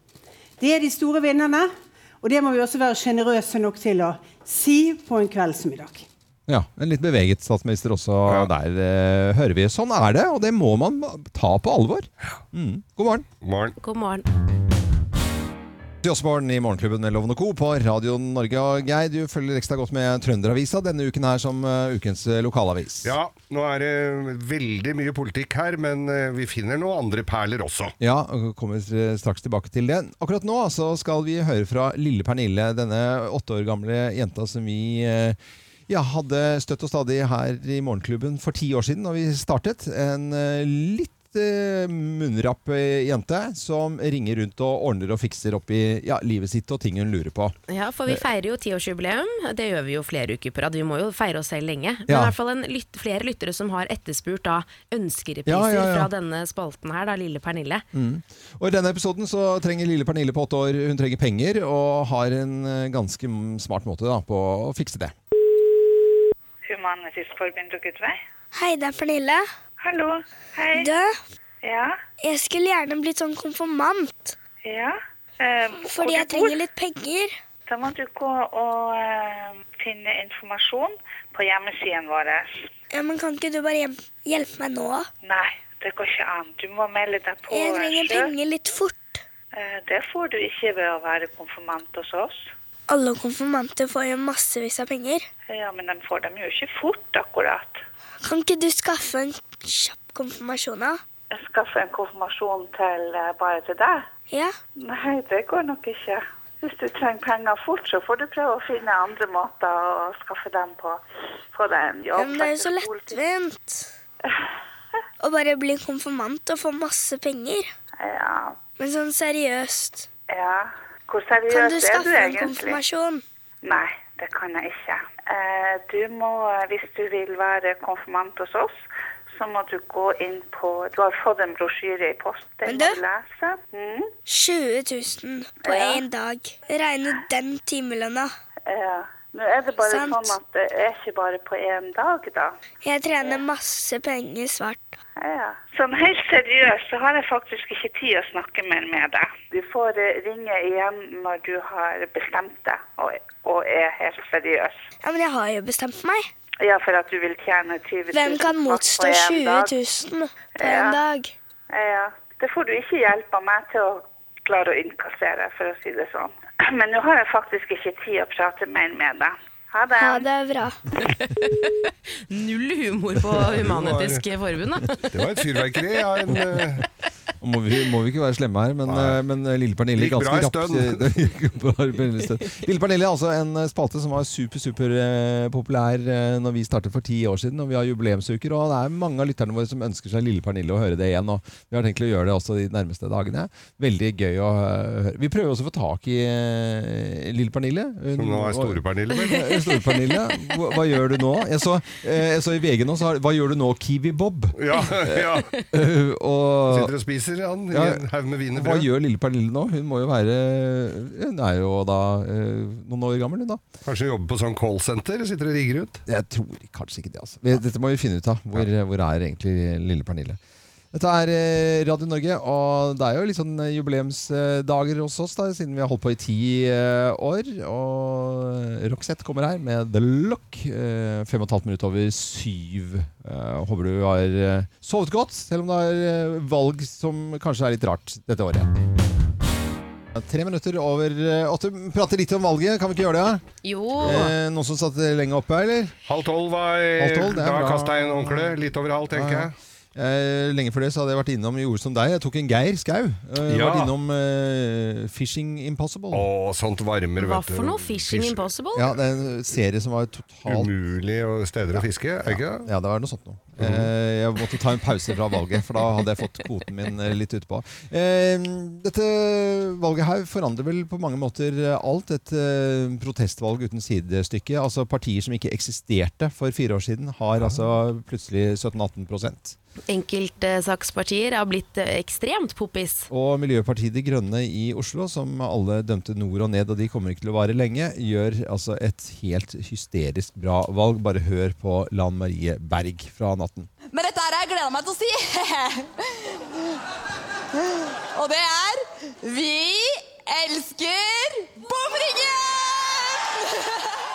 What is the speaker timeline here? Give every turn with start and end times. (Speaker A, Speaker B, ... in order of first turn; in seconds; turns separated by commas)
Speaker A: 0.6-6.0, Speaker B: 6.5-13.3, Speaker C: 13.4-13.8, Speaker D: 13.8-14.2, Speaker B: 16.0-23.1, Speaker C: 23.0-27.9, Speaker B: 28.0-47.5, Speaker D: 47.7-57.8, Speaker B: 52.1-52.3, Speaker B: 55.5-56.1, Speaker B: 57.9-65.1, Speaker E: 66.6-68.2, Speaker F: 68.5-69.5, Speaker E: 69.8-70.9, Speaker F: 70.7-71.2, Speaker E: 71.6-72.0, Speaker F: 72.2-74.3, Speaker E: 74.6-76.6, Speaker F: 75.7-77.3, Speaker E: 77.7-82.6, Speaker F: 82.9-85.1, Speaker E: 85.2-88.3, Speaker F: 87.5-89.2, Speaker E: 89.5-92.5, Speaker F: 92.9-95.3, Speaker E: 95.5-97.8, Speaker F: 98.2-101.0, Speaker E: 101.3-104.1, Speaker F: 104.3-104.5, Speaker E: 104.8-111.0, Speaker E: 111.5-113.2, Speaker F: 112.2-113.9, Speaker F: 115.2-117.7, Speaker E: 118.0-118.6, Speaker F: 118.7-120.1, Speaker E: 120.3-122.8, Speaker F: 121.5-123.2, Speaker E: 123.6-134.1, Speaker F: 132.6-133.0, Speaker F: 134.2-138.3, Speaker E: 135.6-136.1, Speaker E: 138.7-142.5, Speaker F: 139.8-140.3, Speaker F: 142.8-145.0, Speaker E: 145.2-154.7, Speaker F: 155.0-156.3, Speaker E: 156.6-159.7, Speaker F: 158.1-161.3, Speaker E: 160.6-161.0, Speaker E: 161.7-170.3, Speaker F: 170.0-170.8, Speaker D: 171.0-175.1, Speaker C: 173.5-174.2, Speaker C: 175.1-176.8, Speaker B: 177.4-206.9, Speaker C: 178.8-179.2, Speaker C: 179.9-181.1, Speaker C: 198.2-199.4, Speaker D: 199.5-200.2, Speaker C: 204.6-205.5, Speaker C: 206.7-208.9, Speaker B: 207.7-208.0, Speaker B: 208.5-213.6, Speaker C: 213.8-216.0, Speaker B: 216.1-220.4, Speaker B: 220.9-238.7, Speaker B: 240.1-243.4, Speaker D: 243.6-244.3, Speaker C: 244.0-244.2, Speaker B: 244.0-245.9, Speaker C: 246.1-249.5, Speaker B: 247.0-256.3, Speaker C: 253.4-253.9, Speaker C: 256.1-258.4, Speaker D: 257.2-258.9, Speaker B: 258.7-260.7, Speaker C: 260.4-262.7, Speaker B: 261.7-279.6, Speaker C: 263.6-263.9, Speaker D: 279.9-283.1, Speaker B: 283.1-293.7, Speaker G: 293.9-296.8, Speaker G: 297.6-303.8